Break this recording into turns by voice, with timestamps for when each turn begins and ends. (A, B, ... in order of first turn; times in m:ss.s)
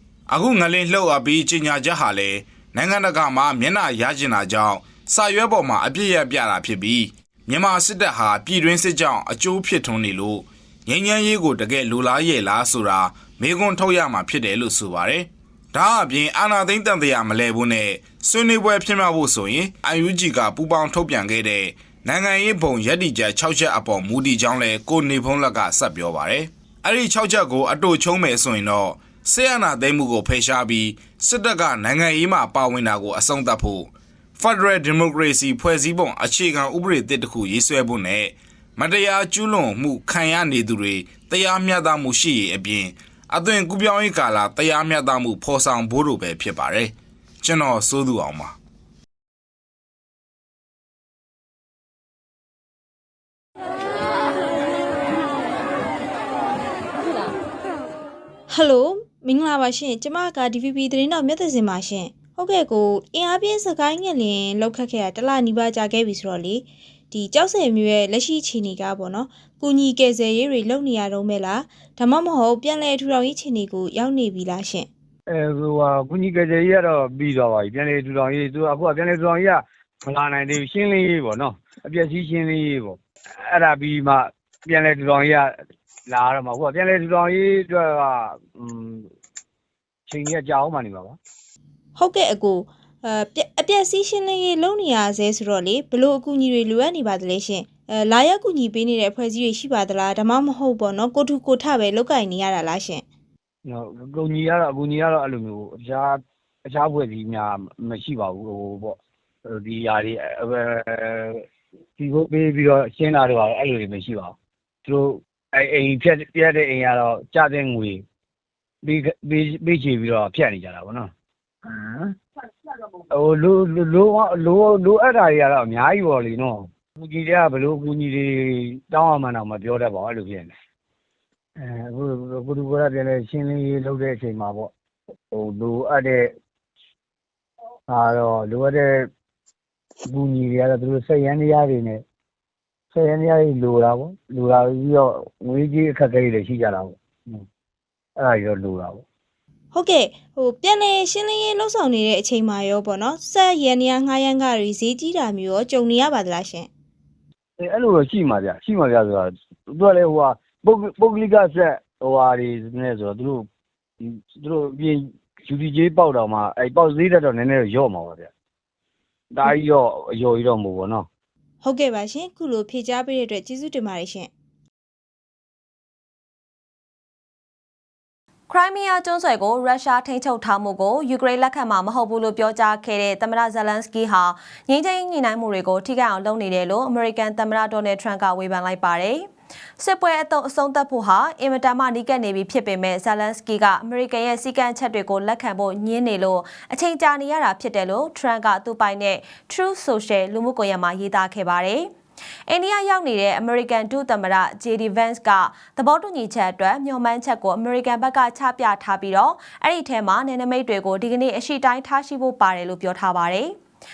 0:00.3-0:48.5 A
0:58.5-1:14.9 B
1:15.3-1:25.5 C
1:26.1-1:29.0 C
1:30.1-1:31.2 C
1:32.0-1:43.0 B
1:43.6-1:51.4 C
1:52.0-1:54.3 C
1:54.8-1:58.0 C
1:58.8-2:01.1 C
2:01.6-2:02.1 C
2:03.1-2:10.5 C
2:11.6-2:14.7 C
2:15.3-2:16.3 C
2:17.9-2:19.1 C
2:20.1-2:22.0 C
2:22.9-2:27.4 C
2:28.2-2:29.0 C
2:29.7-2:36.7 B
2:37.6-2:43.5 C
2:44.0-2:48.3 C
2:49.3-2:51.0 C
2:51.6-2:54.3 B
2:58.5-3:09.3 D
3:09.8-3:21.9 D
3:22.5-3:33.5 D